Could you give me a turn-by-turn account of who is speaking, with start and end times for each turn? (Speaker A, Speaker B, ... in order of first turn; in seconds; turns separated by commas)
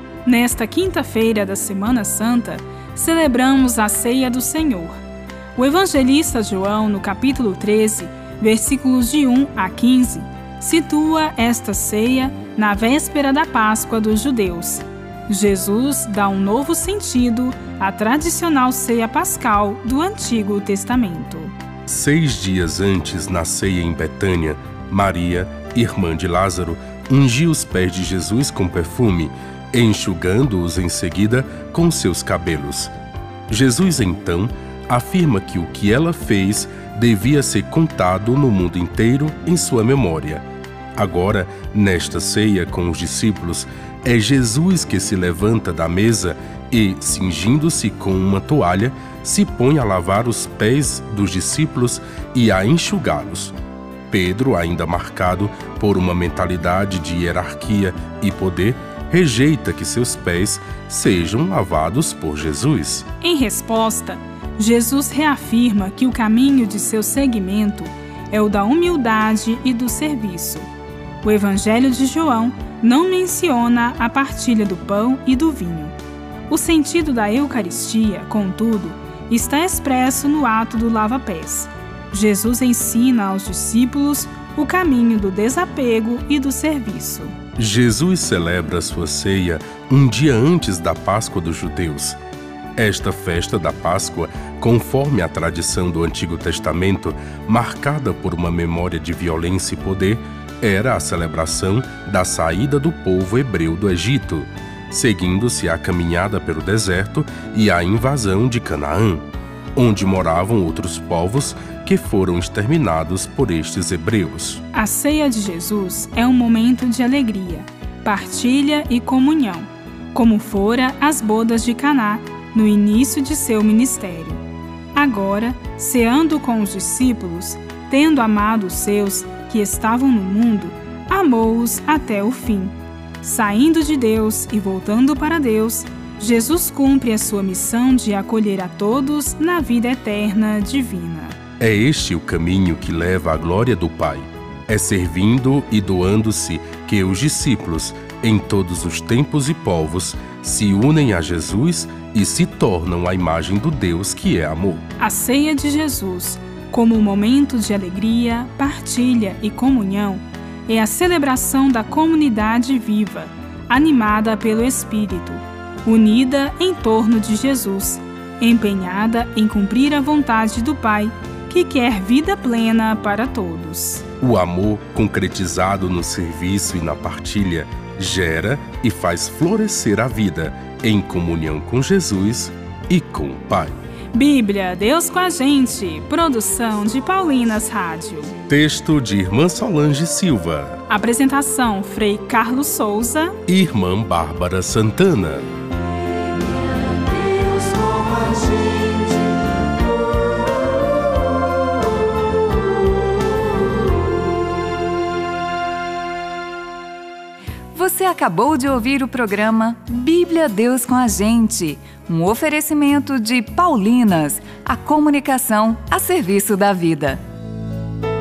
Speaker A: 0.2-5.0, Speaker A: 5.5-21.5, Speaker B: 21.9-32.9, Speaker B: 33.5-40.4, Speaker B: 41.0-53.5, Speaker B: 54.1-63.1, Speaker A: 63.2-70.7, Speaker A: 71.2-75.9, Speaker A: 76.5-87.3, Speaker B: 87.6-92.2, Speaker B: 92.8-114.6, Speaker A: 114.7-124.4, Speaker A: 124.9-141.3, Speaker B: 141.6-154.8, Speaker A: 155.0-174.0, Speaker B: 174.2-183.7, Speaker A: 184.1-188.3, Speaker B: 188.5-190.8, Speaker A: 190.9-193.4, Speaker B: 193.5-195.4, Speaker C: 207.7-217.2